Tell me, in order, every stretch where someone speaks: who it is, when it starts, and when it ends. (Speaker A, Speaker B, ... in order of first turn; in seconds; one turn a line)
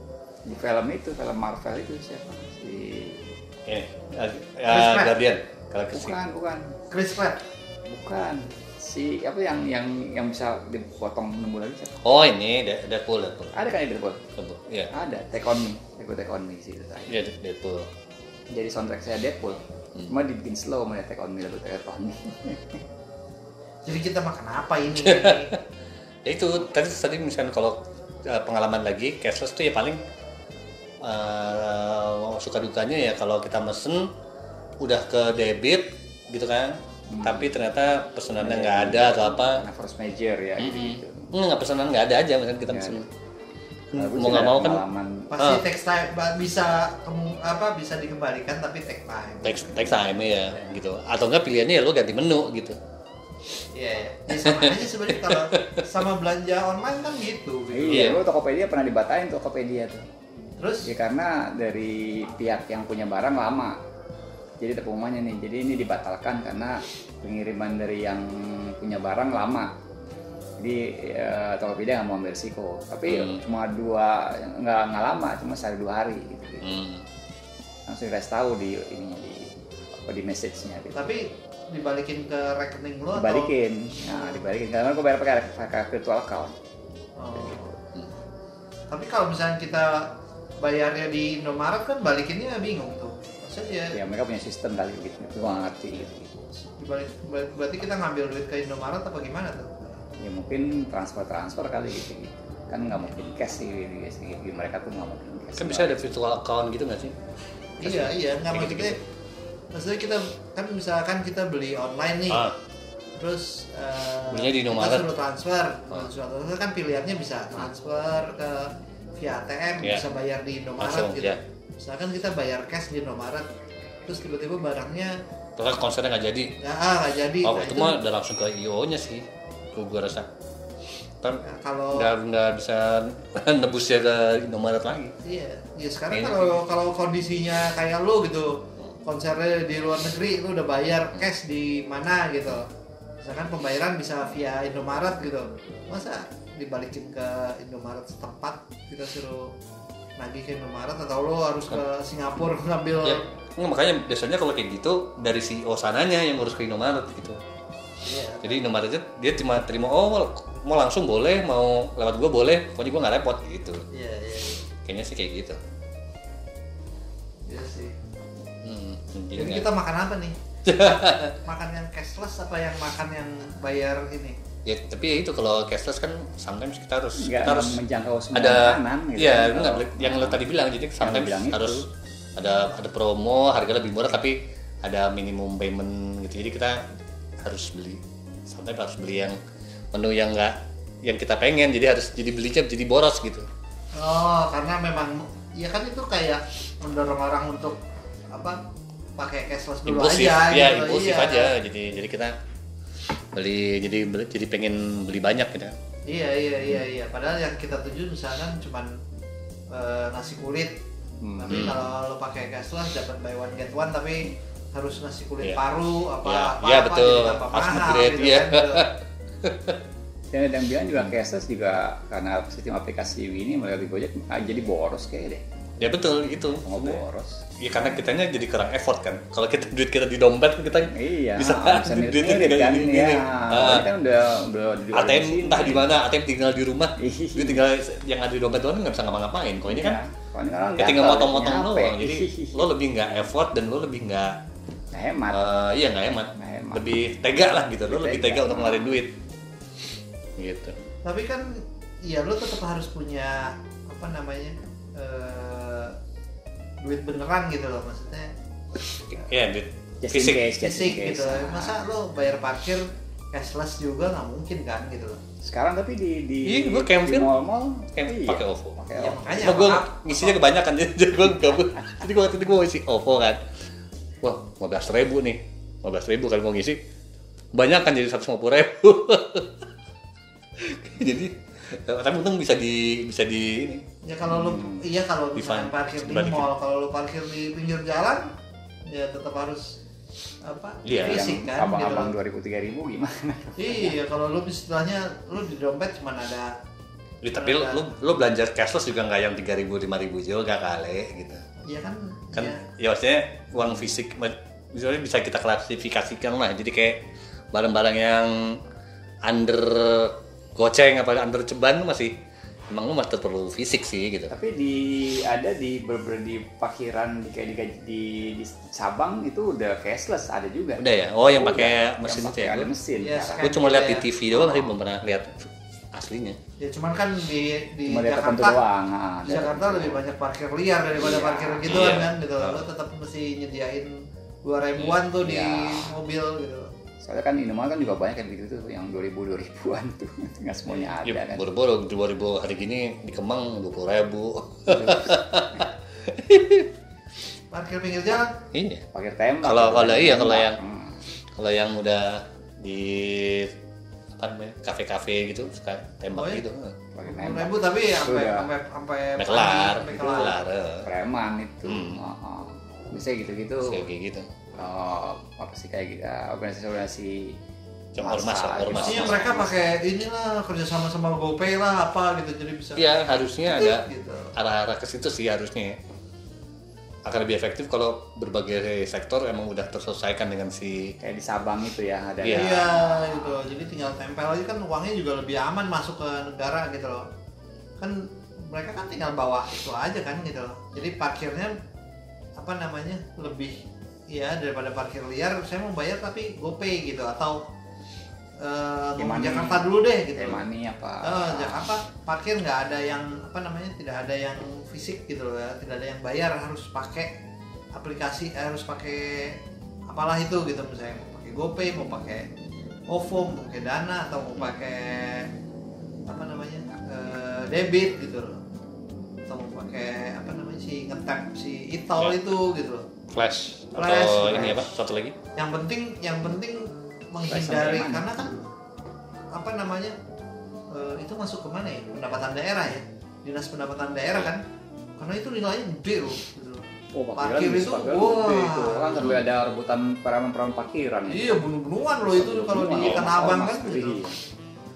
Speaker A: 0.5-3.3
Speaker B: 3.6-6.2
Speaker C: 4.7-5.2
Speaker A: 5.9-6.8
Speaker C: 6.9-7.4
Speaker A: 7.8-12.0
Speaker B: 12.0-13.5
Speaker A: 13.5-14.2
Speaker B: 14.3-14.9
Speaker A: 14.9-17.2
Speaker B: 17.1-17.9
Speaker A: 18.5-22.8
Speaker C: 23.8-25.5
Speaker B: 25.0-25.6
Speaker B: 26.2-30.0
Speaker B: 31.0-34.1
Speaker B: 34.8-39.6
Speaker A: 37.1-37.5
Speaker A: 38.4-41.3
Speaker B: 40.6-43.1
Speaker A: 42.7-43.0
Speaker B: 43.9-44.8
Speaker A: 44.0-45.3
Speaker C: 45.3-50.0
Speaker B: 45.4-45.6
Speaker B: 49.4-52.8
Speaker A: 50.4-50.8
Speaker C: 53.7-58.2
Speaker B: 54.3-55.8
Speaker A: 57.7-60.0
Speaker B: 57.9-58.2
Speaker C: 60.6-60.9
Speaker A: 60.8-63.8
Speaker A: 64.6-69.7
Speaker A: 70.6-76.8
Speaker B: 73.1-73.4
Speaker B: 76.6-77.0
Speaker A: 77.9-81.1
Speaker C: 80.9-83.5
Speaker A: 83.2-86.5
Speaker C: 87.2-87.7
Speaker C: 88.9-94.0
Speaker A: 93.9-96.3
Speaker C: 96.6-100.0
Speaker A: 100.2-106.0
Speaker B: 105.6-107.1
Speaker C: 107.8-109.0
Speaker B: 107.8-109.0
Speaker C: 109.7-112.4
Speaker B: 112.3-112.5
Speaker C: 113.2-123.5
Speaker B: 114.3-115.1
Speaker B: 120.8-121.4
Speaker C: 124.0-125.2
Speaker B: 125.6-126.5
Speaker C: 126.6-128.0
Speaker B: 127.4-130.3
Speaker C: 131.4-132.1
Speaker B: 131.9-135.1
Speaker C: 135.2-142.7
Speaker B: 136.1-136.6
Speaker C: 143.2-149.5
Speaker C: 150.2-153.2
Speaker B: 153.0-157.4
Speaker C: 158.0-158.6
Speaker B: 158.4-163.8
Speaker C: 163.9-164.6
Speaker B: 164.8-165.6
Speaker C: 167.4-167.9
Speaker B: 168.6-169.7
Speaker C: 169.3-174.4
Speaker B: 170.6-171.3
Speaker B: 174.6-177.8
Speaker A: 177.2-180.4
Speaker B: 178.3-181.8
Speaker A: 181.0-181.8
Speaker B: 182.3-186.8
Speaker B: 187.4-189.4
Speaker B: 189.9-193.5
Speaker C: 193.9-197.8
Speaker C: 198.3-198.6
Speaker C: 199.2-201.5
Speaker B: 199.8-202.3
Speaker B: 203.3-205.8
Speaker C: 206.1-208.9
Speaker C: 209.7-210.8
Speaker A: 211.2-211.7
Speaker C: 211.4-218.8
Speaker B: 211.5-211.8
Speaker B: 216.2-219.8
Speaker A: 220.3-225.4
Speaker B: 225.8-227.0
Speaker A: 226.6-227.4
Speaker B: 227.6-233.9
Speaker A: 230.9-235.9
Speaker B: 234.9-240.0
Speaker A: 237.0-237.6
Speaker A: 239.7-242.6
Speaker B: 240.8-244.4
Speaker A: 244.9-245.4
Speaker B: 245.3-249.1
Speaker A: 246.4-246.9
Speaker A: 247.8-249.0
Speaker B: 250.4-250.8
Speaker C: 251.0-256.0
Speaker C: 256.8-258.3
Speaker B: 259.1-260.5
Speaker A: 260.0-261.8
Speaker C: 260.6-265.2
Speaker A: 265.4-269.4
Speaker B: 266.4-267.3
Speaker B: 267.9-268.8
Speaker C: 268.9-270.4
Speaker B: 269.4-273.4
Speaker B: 274.2-276.8
Speaker B: 277.5-279.6
Speaker B: 280.6-283.9
Speaker C: 284.0-288.3
Speaker A: 284.3-284.9
Speaker B: 285.4-286.5
Speaker C: 288.9-289.8
Speaker C: 290.4-292.1
Speaker B: 290.8-291.3
Speaker A: 290.9-293.9
Speaker C: 293.6-296.5
Speaker B: 297.2-301.4
Speaker C: 297.3-297.9
Speaker C: 301.6-302.6
Speaker B: 302.3-308.6
Speaker B: 309.2-312.1
Speaker B: 312.7-314.3
Speaker A: 314.3-323.4
Speaker B: 320.8-322.7
Speaker C: 323.0-324.1
Speaker B: 323.4-326.4
Speaker C: 326.6-328.6
Speaker A: 327.9-330.0
Speaker C: 329.2-336.7
Speaker A: 331.0-331.8
Speaker B: 331.7-332.6
Speaker A: 335.2-335.9
Speaker A: 337.0-341.4
Speaker B: 341.0-346.7
Speaker A: 344.7-345.2
Speaker C: 347.5-348.4
Speaker B: 348.5-348.8
Speaker A: 348.9-351.0
Speaker B: 349.4-350.6
Speaker B: 351.4-353.5
Speaker B: 354.2-356.8
Speaker C: 356.1-356.4
Speaker A: 356.9-358.5
Speaker C: 357.0-360.4
Speaker B: 359.2-360.9
Speaker A: 360.8-363.8
Speaker B: 361.6-362.0
Speaker B: 363.6-364.3
Speaker A: 364.6-367.4
Speaker B: 367.9-369.5
Speaker A: 368.0-369.4
Speaker C: 368.7-374.3
Speaker B: 372.8-375.8
Speaker B: 377.0-380.9
Speaker A: 381.0-383.4
Speaker B: 382.2-382.6
Speaker C: 382.3-387.1
Speaker C: 387.8-391.6
Speaker C: 392.4-393.5
Speaker C: 394.1-397.4
Speaker C: 398.4-400.4
Speaker A: 399.0-401.6
Speaker C: 401.0-407.1
Speaker C: 407.7-412.3
Speaker C: 412.9-415.3
Speaker C: 416.1-418.4
Speaker C: 419.3-422.9
Speaker B: 423.1-425.1
Speaker C: 423.8-424.6
Speaker C: 425.4-428.4
Speaker A: 427.3-428.1
Speaker C: 429.3-429.9
Speaker C: 430.7-434.4
Speaker C: 435.0-436.6
Speaker A: 436.9-441.4
Speaker C: 437.1-439.2
Speaker C: 441.1-444.0
Speaker A: 442.0-444.2
Speaker B: 442.8-443.1